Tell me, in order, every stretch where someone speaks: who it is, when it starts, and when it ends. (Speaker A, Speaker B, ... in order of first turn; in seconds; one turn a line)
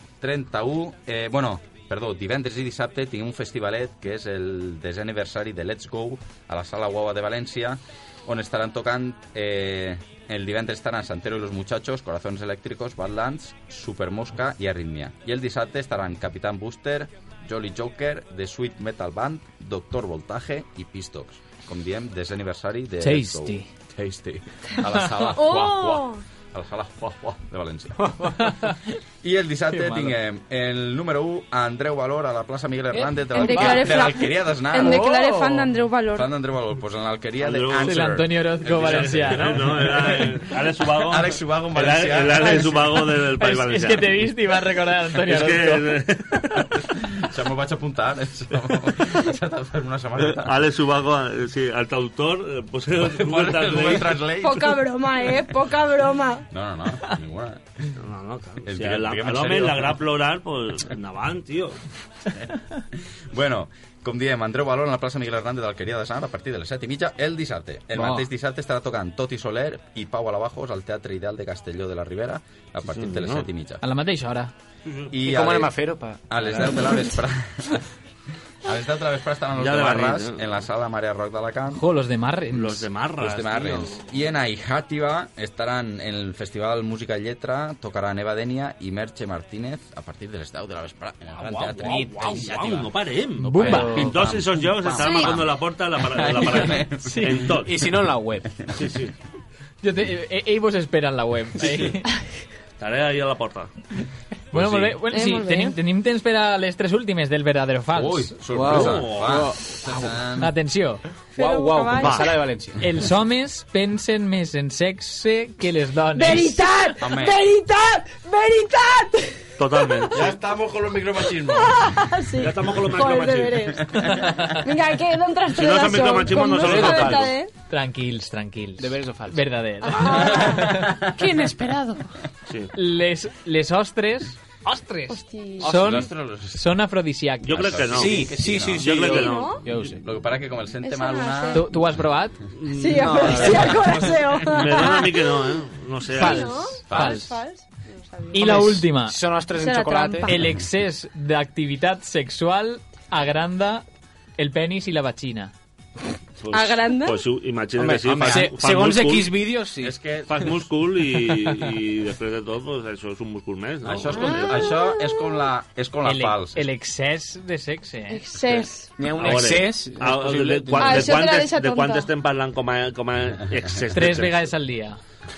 Speaker A: 0.2-28.6
Speaker B: 23.0-23.7
Speaker C: 25.2-26.2
Speaker D: 28.1-28.4
Speaker B: 28.4-28.8
Speaker A: 29.2-35.1
Speaker B: 29.7-30.1
Speaker B: 32.9-33.9
Speaker C: 33.3-36.3
Speaker B: 34.7-35.7
Speaker A: 36.1-42.7
Speaker E: 37.4-38.0
Speaker B: 37.8-39.9
Speaker E: 38.8-44.3
Speaker B: 42.4-45.9
Speaker E: 45.2-46.6
Speaker A: 46.9-50.6
Speaker E: 50.2-54.2
Speaker A: 53.0-54.8
Speaker C: 54.4-56.5
Speaker A: 56.5-57.6
Speaker E: 58.0-61.8
Speaker A: 58.6-60.0
Speaker A: 63.3-73.8
Speaker D: 67.9-68.3
Speaker E: 72.9-73.4
Speaker B: 73.8-74.5
Speaker A: 75.1-77.8
Speaker D: 75.2-77.1
Speaker A: 78.6-81.8
Speaker E: 79.5-80.4
Speaker B: 81.7-82.9
Speaker E: 82.5-84.0
Speaker A: 83.2-92.8
Speaker E: 91.3-97.8
Speaker B: 91.8-92.8
Speaker B: 93.4-94.1
Speaker A: 93.4-97.3
Speaker D: 93.6-94.2
Speaker C: 95.0-95.3
Speaker B: 97.0-97.3
Speaker D: 97.6-98.5
Speaker E: 98.7-99.1
Speaker B: 99.8-102.1
Speaker E: 102.8-103.7
Speaker E: 104.5-104.9
Speaker B: 104.5-108.3
Speaker C: 105.1-105.8
Speaker A: 107.9-110.5
Speaker D: 108.5-110.2
Speaker E: 108.7-109.5
Speaker B: 110.4-111.0
Speaker D: 111.3-112.8
Speaker C: 111.3-112.3
Speaker E: 112.0-112.3
Speaker B: 112.8-116.7
Speaker C: 116.1-119.5
Speaker A: 117.0-117.4
Speaker E: 119.6-120.2
Speaker C: 120.0-120.3
Speaker A: 120.1-122.0
Speaker C: 121.4-127.5
Speaker E: 122.4-123.7
Speaker A: 123.9-124.3
Speaker B: 123.9-124.6
Speaker E: 125.5-127.3
Speaker D: 126.5-127.3
Speaker B: 127.7-130.9
Speaker D: 128.8-132.0
Speaker C: 129.8-132.0
Speaker A: 130.1-131.2
Speaker B: 132.7-137.8
Speaker C: 135.1-135.7
Speaker D: 135.6-136.1
Speaker A: 135.7-136.7
Speaker E: 137.4-139.9
Speaker A: 137.5-139.1
Speaker D: 137.9-140.0
Speaker C: 139.0-139.6
Speaker A: 140.0-141.7
Speaker C: 140.8-141.6
Speaker B: 141.5-142.3
Speaker C: 142.7-145.5
Speaker D: 142.8-144.2
Speaker E: 142.8-143.6
Speaker E: 144.5-146.7
Speaker C: 146.1-148.7
Speaker B: 146.1-147.3
Speaker A: 146.9-147.3
Speaker B: 148.3-149.2
Speaker D: 148.3-150.3
Speaker C: 149.6-150.5
Speaker B: 150.2-153.8
Speaker B: 154.4-155.5
Speaker E: 156.4-159.3
Speaker C: 156.5-157.2
Speaker D: 157.8-159.9
Speaker A: 159.8-160.4
Speaker E: 160.3-164.5
Speaker A: 163.8-166.7
Speaker C: 164.1-165.1
Speaker B: 166.0-168.2
Speaker C: 168.1-168.9
Speaker D: 169.0-171.2
Speaker E: 169.2-174.4
Speaker C: 170.8-172.1
Speaker B: 173.9-175.0